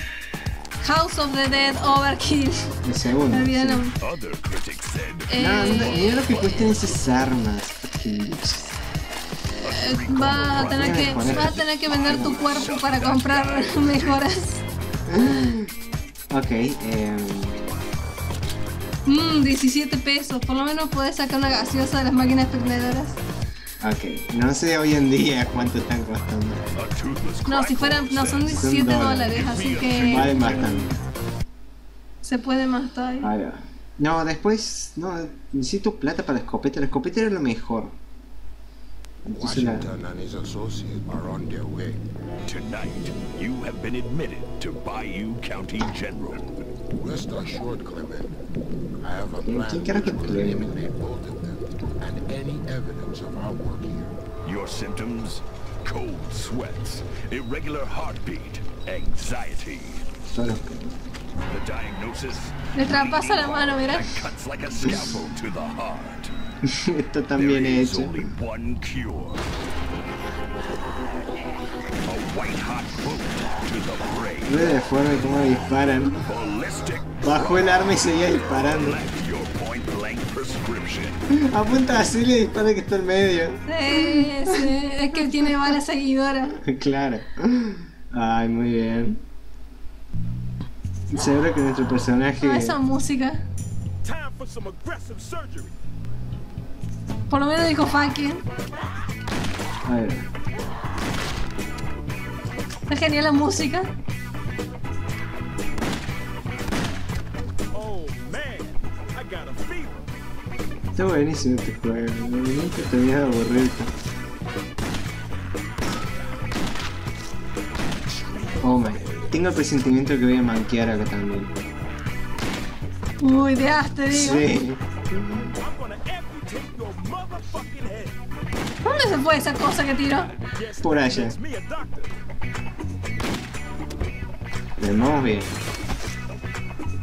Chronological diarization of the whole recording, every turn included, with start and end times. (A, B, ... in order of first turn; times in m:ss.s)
0:00.8-0:02.6 A
0:02.8-0:03.8 B
0:03.3-0:04.0 A
0:04.0-0:07.0 C
0:05.3-0:06.5 A
0:05.4-0:08.8 B
0:09.6-0:14.1 C
0:09.7-0:14.6 A
0:10.8-0:12.7 B
0:15.1-0:15.7 B
0:15.2-0:15.4 A
0:16.3-0:17.6 B
0:19.1-0:23.2 A
0:23.8-0:26.7 B
0:26.8-0:28.7 C
0:27.5-0:30.9 A
0:28.6-0:29.4 B
0:29.3-0:30.7 C
0:30.0-0:31.0 B
0:32.2-0:33.3 A
0:33.2-0:38.0 B
0:39.2-0:39.9 B
0:39.3-0:42.0 D
0:42.5-0:46.7 C
0:47.0-0:48.4 D
0:49.0-0:54.2 D
0:49.4-0:50.7 B
0:54.4-1:00.0 C
1:00.3-1:00.9 B
1:01.5-1:06.3 C
1:02.8-1:04.2 A
1:06.6-1:08.3 B
1:07.4-1:09.4 C
1:12.0-1:14.7 C
1:14.5-1:16.2 B
1:16.2-1:21.2 C
1:17.2-1:19.0 B
1:21.3-1:25.8 B
1:23.7-1:26.6 A
1:26.6-1:29.2 B
1:31.1-1:32.8 B
1:32.4-1:33.4 A
1:34.0-1:35.7 E
1:37.3-1:38.4 A
1:39.8-1:40.3 B
1:42.9-1:43.9 A
1:47.7-1:50.1 E
1:51.0-1:53.9 B
1:58.6-2:01.5 B
2:03.2-2:04.4 A
2:04.1-2:05.5 B
2:05.6-2:08.2 E
2:08.8-2:10.4 A
2:10.4-2:12.1 E
2:10.8-2:11.4 B
2:14.8-2:15.6 B